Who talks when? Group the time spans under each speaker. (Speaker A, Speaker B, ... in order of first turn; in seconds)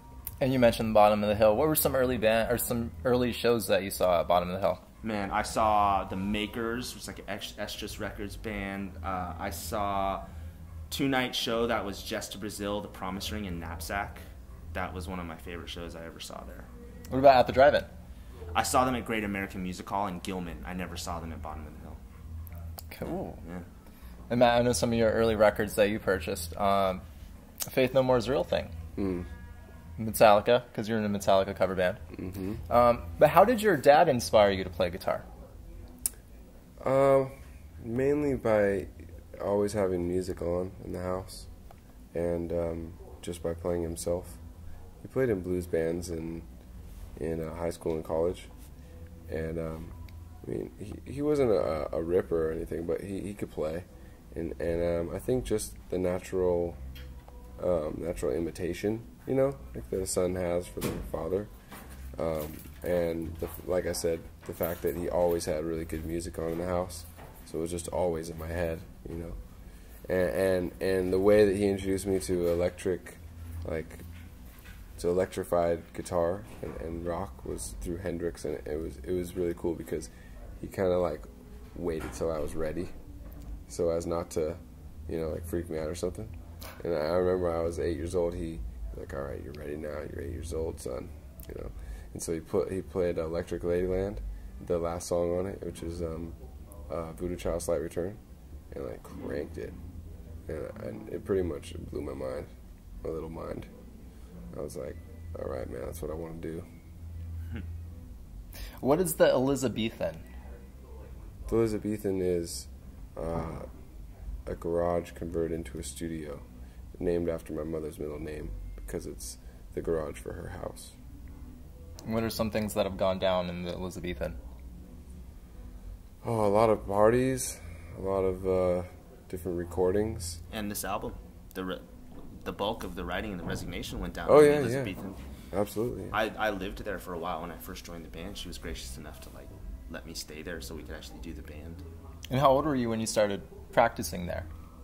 Speaker A: 0.4-4.8, 17.1-17.9, 22.9-23.4, 24.3-27.0, 27.7-28.7, 30.0-32.0, 32.7-35.2, 108.8-110.2, 122.0-124.4, 142.3-144.5
Speaker B: 5.0-10.2, 10.9-14.2, 14.7-16.7, 18.5-22.0, 130.5-131.8, 132.4-135.2, 136.1-141.8
Speaker C: 29.0-29.3, 32.1-32.6, 36.8-41.5, 42.1-44.4, 45.0-46.5, 47.2-48.5, 49.3-56.8, 57.6-61.5, 62.2-69.4, 70.1-74.1, 75.0-82.9, 83.7-96.4, 96.9-98.2, 98.7-99.8, 100.5-102.5, 103.0-103.7, 104.5-106.7, 111.5-113.7, 114.5-116.5, 117.0-121.0, 126.2-130.4, 134.3-134.9, 135.5-136.2